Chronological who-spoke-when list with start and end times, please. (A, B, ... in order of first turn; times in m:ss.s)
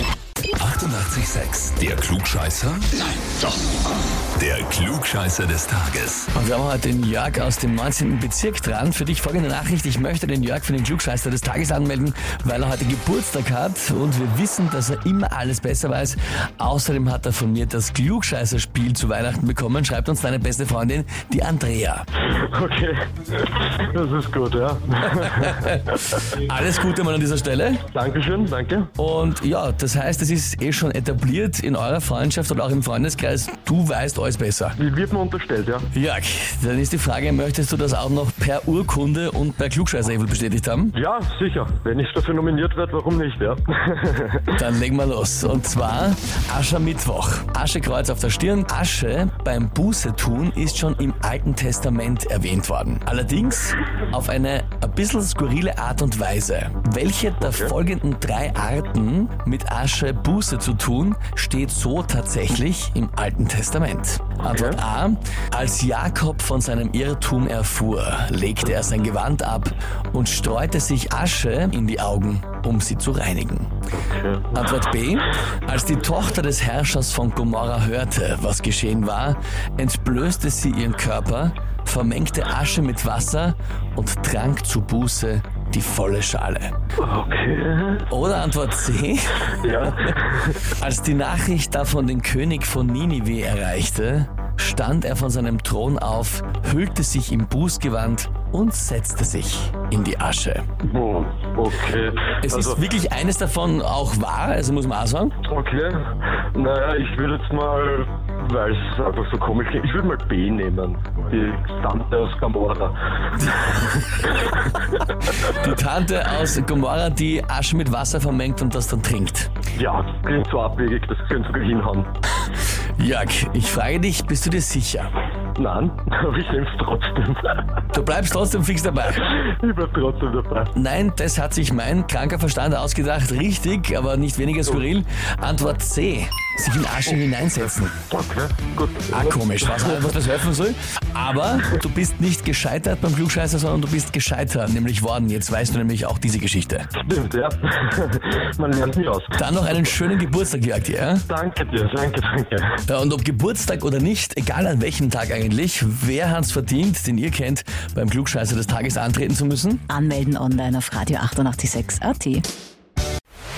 0:00.6-0:03.7 A
0:04.4-0:06.3 A
0:06.3-0:22.1 B
0:22.2-0:26.4 C
0:25.2-0:27.8 B
0:27.9-0:28.9 C
0:29.0-0:34.8 B
0:34.8-0:35.9 C
0:35.9-0:41.0 B
0:40.9-0:44.6 C
0:44.5-1:13.7 B
0:57.4-0:57.8 C
1:04.4-1:04.8 C
1:14.0-1:14.6 C
1:14.5-1:26.7 B
1:27.0-1:28.1 C
1:28.1-1:40.7 B
1:29.5-1:30.6 C
1:40.8-1:42.8 C
1:42.4-1:45.4 B
1:45.4-1:54.8 C
1:53.4-1:54.0 B
1:55.4-1:59.5 B
1:59.8-2:02.1 C
2:03.0-2:05.1 B
2:05.6-2:07.6 C
2:07.9-2:09.3 B
2:09.2-2:10.7 C
2:10.7-2:18.0 B
2:18.1-2:20.0 C
2:19.1-2:26.9 B
2:27.0-2:29.8 C
2:29.4-2:31.3 B
2:31.3-2:32.8 C
2:32.9-2:39.8 B
2:39.9-2:42.5 D